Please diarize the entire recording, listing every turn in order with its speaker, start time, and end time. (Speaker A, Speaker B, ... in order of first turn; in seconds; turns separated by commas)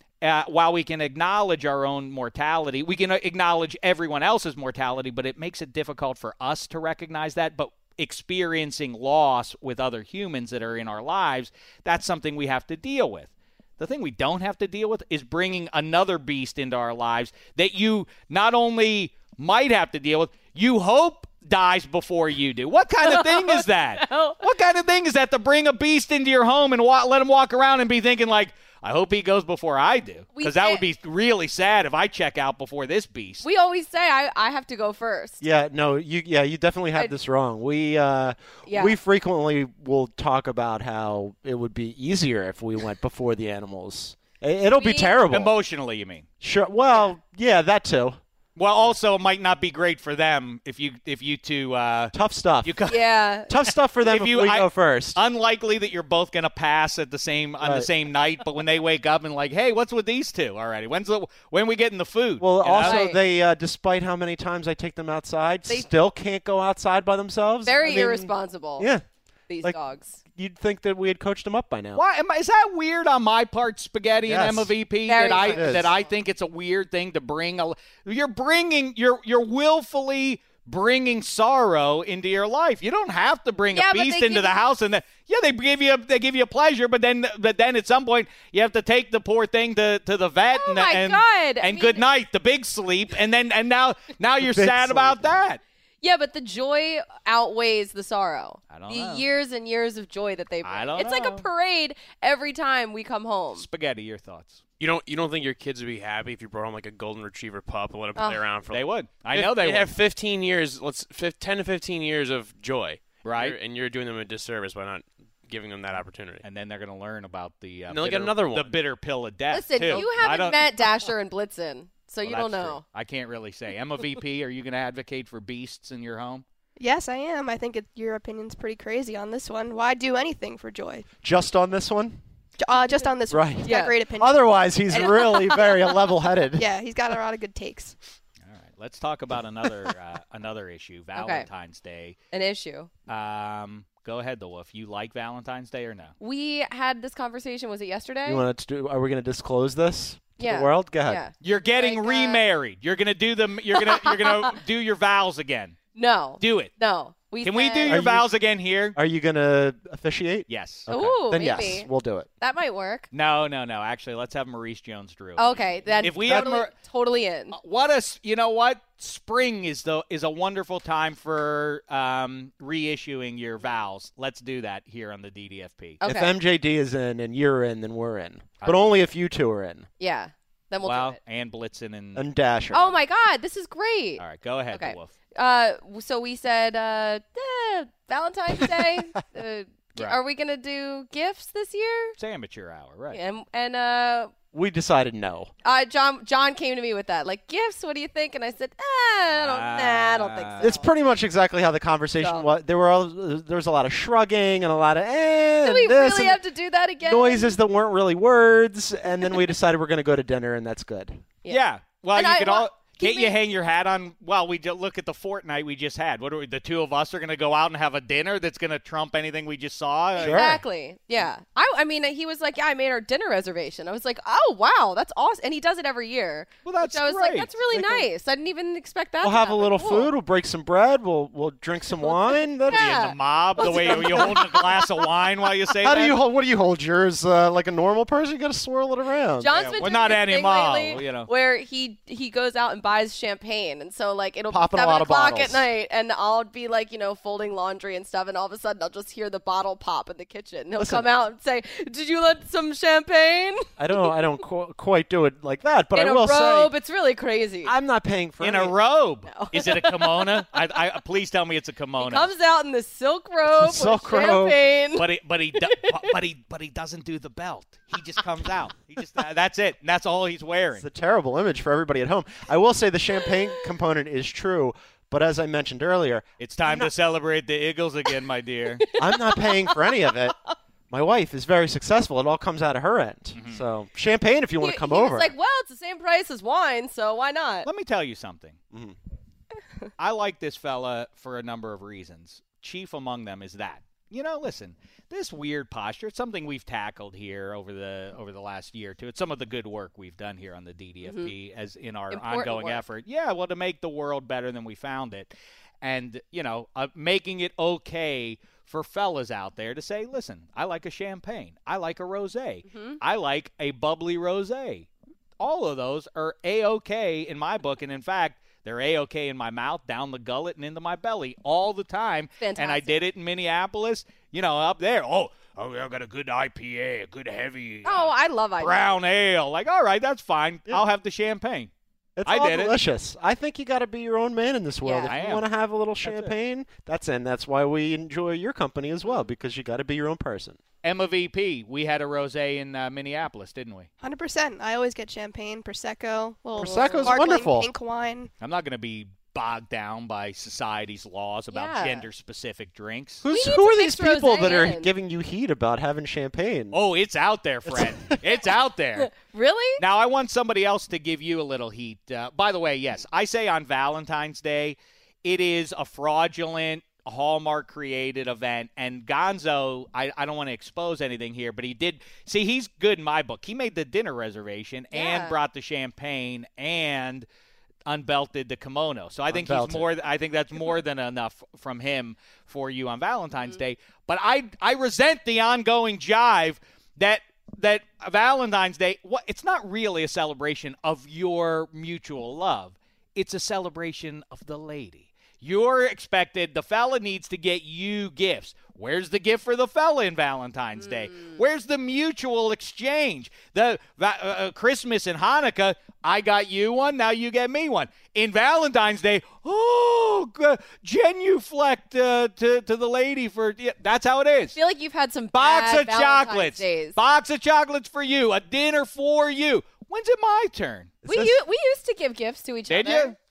Speaker A: 0.2-33.5, Speaker B: 23.0-24.4, Speaker B: 30.4-30.8, Speaker B: 33.4-35.4, Speaker C: 35.4-45.5, Speaker B: 38.7-39.0, Speaker B: 44.8-45.2, Speaker A: 45.3-46.2, Speaker C: 46.4-48.2, Speaker A: 48.6-53.0, Speaker C: 52.1-52.9, Speaker B: 52.9-53.6, Speaker C: 53.5-55.2, Speaker A: 54.0-63.0, Speaker C: 57.6-57.9, Speaker C: 62.4-69.0, Speaker B: 62.8-63.2, Speaker B: 67.7-68.9, Speaker B: 69.5-70.2, Speaker C: 70.3-72.0, Speaker A: 72.0-95.6, Speaker C: 74.2-74.7, Speaker B: 75.1-75.9, Speaker C: 75.4-75.9, Speaker B: 83.7-84.6, Speaker B: 90.5-92.0, Speaker C: 94.4-95.3, Speaker B: 96.0-103.7, Speaker A: 98.7-99.2, Speaker A: 100.6-101.5, Speaker A: 103.6-104.6, Speaker D: 104.8-116.4, Speaker B: 108.2-108.4, Speaker A: 108.7-110.0, Speaker A: 113.2-113.6, Speaker A: 116.4-120.7, Speaker D: 117.9-118.8, Speaker B: 119.5-122.8, Speaker A: 122.2-126.4, Speaker E: 126.8-131.1, Speaker C: 131.2-132.2, Speaker E: 132.6-135.1, Speaker B: 132.8-133.1, Speaker C: 133.3-136.7, Speaker B: 133.6-133.9, Speaker B: 134.9-136.0, Speaker E: 136.6-138.0, Speaker A: 138.4-142.2, Speaker B: 141.2-141.5, Speaker B: 142.3-142.9, Speaker A: 143.1-146.1, Speaker B: 146.2-148.4, Speaker C: 148.2-151.2, Speaker B: 150.4-152.4, Speaker A: 151.4-155.8, Speaker B: 153.7-154.6, Speaker B: 155.9-158.0, Speaker A: 156.4-156.7, Speaker A: 157.4-159.0, Speaker C: 157.8-158.3, Speaker C: 158.9-162.3, Speaker A: 160.5-161.2, Speaker B: 160.9-161.9, Speaker B: 162.4-163.1, Speaker A: 163.1-166.7, Speaker B: 165.4-167.6, Speaker C: 166.0-166.5, Speaker A: 167.5-176.0, Speaker B: 176.0-176.3, Speaker C: 176.0-179.9, Speaker A: 178.6-179.0, Speaker B: 180.0-181.2, Speaker A: 180.8-182.2, Speaker C: 182.2-182.8, Speaker B: 182.7-192.2, Speaker A: 184.2-185.1, Speaker A: 192.2-193.2, Speaker B: 193.1-194.3, Speaker C: 194.5-195.5, Speaker B: 195.6-200.9, Speaker A: 199.3-200.7, Speaker C: 200.6-206.4, Speaker B: 205.6-207.6, Speaker C: 207.0-211.2, Speaker A: 211.5-220.6, Speaker B: 212.1-213.4, Speaker B: 220.2-230.1, Speaker C: 220.2-220.6, Speaker A: 226.7-228.0, Speaker C: 229.2-234.6, Speaker B: 232.0-234.9, Speaker A: 232.7-236.2, Speaker C: 235.8-239.5, Speaker B: 239.4-254.1, Speaker A: 239.5-241.3, Speaker C: 244.5-245.7, Speaker C: 250.8-251.1, Speaker C: 253.8-256.7, Speaker B: 255.9-257.8, Speaker C: 257.6-258.7, Speaker A: 258.4-262.3, Speaker B: 259.3-260.5, Speaker B: 262.0-265.1, Speaker C: 263.5-264.6, Speaker A: 264.9-270.9, Speaker B: 265.6-266.1, Speaker C: 270.8-276.9, Speaker A: 276.4-278.9, Speaker B: 278.8-280.2, Speaker C: 279.0-280.3, Speaker C: 280.9-285.3, Speaker A: 283.3-283.6, Speaker B: 284.6-287.7, Speaker A: 287.6-288.6, Speaker C: 288.7-289.0, Speaker A: 290.0-314.9, Speaker B: 301.0-301.3, Speaker B: 302.1-302.8, Speaker B: 312.7-313.0, Speaker A: 315.4-331.7, Speaker B: 322.4-323.0, Speaker B: 327.9-328.9, Speaker C: 332.2-340.6, Speaker A: 332.3-332.7, Speaker B: 334.8-335.1, Speaker A: 335.1-335.5, Speaker A: 336.0-336.3, Speaker A: 340.8-343.9, Speaker E: 344.0-348.3, Speaker C: 346.6-347.7, Speaker B: 346.6-347.1, Speaker A: 348.4-353.2, Speaker B: 351.5-352.1, Speaker C: 353.2-356.8, Speaker B: 353.3-354.9, Speaker A: 356.7-359.1, Speaker C: 357.7-358.2, Speaker B: 359.0-359.8, Speaker A: 359.8-377.3, Speaker B: 374.9-375.4, Speaker A: 377.9-414.6, Speaker C: 379.3-379.9, Speaker B: 400.8-401.4, Speaker B: 414.6-417.0, Speaker A: 415.4-420.9, Speaker C: 421.0-421.4, Speaker B: 421.1-423.1, Speaker A: 422.7-423.1